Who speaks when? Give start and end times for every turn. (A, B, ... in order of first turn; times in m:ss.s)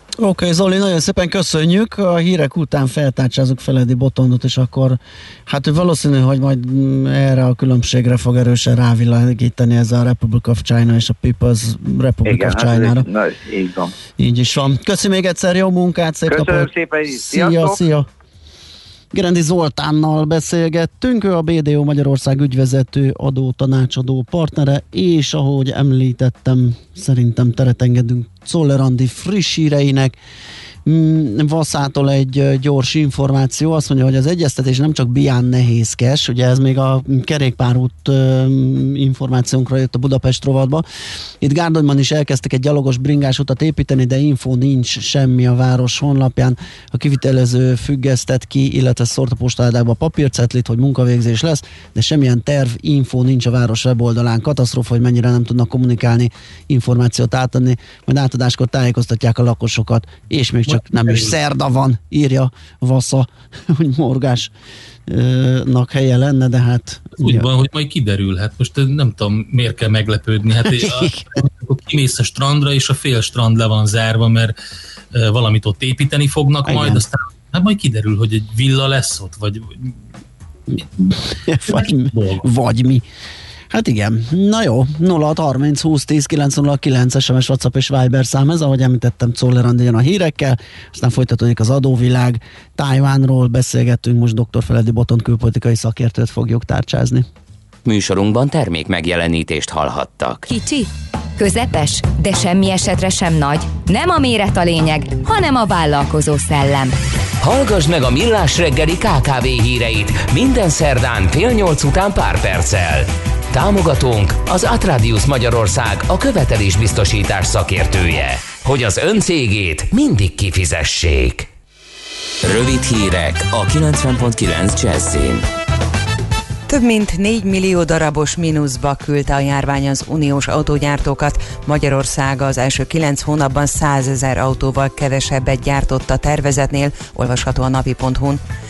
0:00.2-0:13.0 A
0:12.3-0:13.9 B
0:14.2-0:18.1 A
0:16.3-0:17.8 B
0:19.1-0:30.2 A
0:30.8-0:40.8 A
0:41.4-1:04.5 A
1:00.7-1:01.3 C
1:05.1-1:07.5 A
1:07.2-1:14.5 C
1:10.7-1:11.3 A
1:15.1-1:19.9 C
1:16.6-1:17.0 A
1:21.4-1:23.0 A
1:21.7-1:22.4 C
1:23.7-1:37.2 A
1:37.8-1:40.5 D
1:40.5-1:46.9 E
1:47.4-2:01.5 D
2:02.4-2:05.4 D
2:06.7-2:18.4 F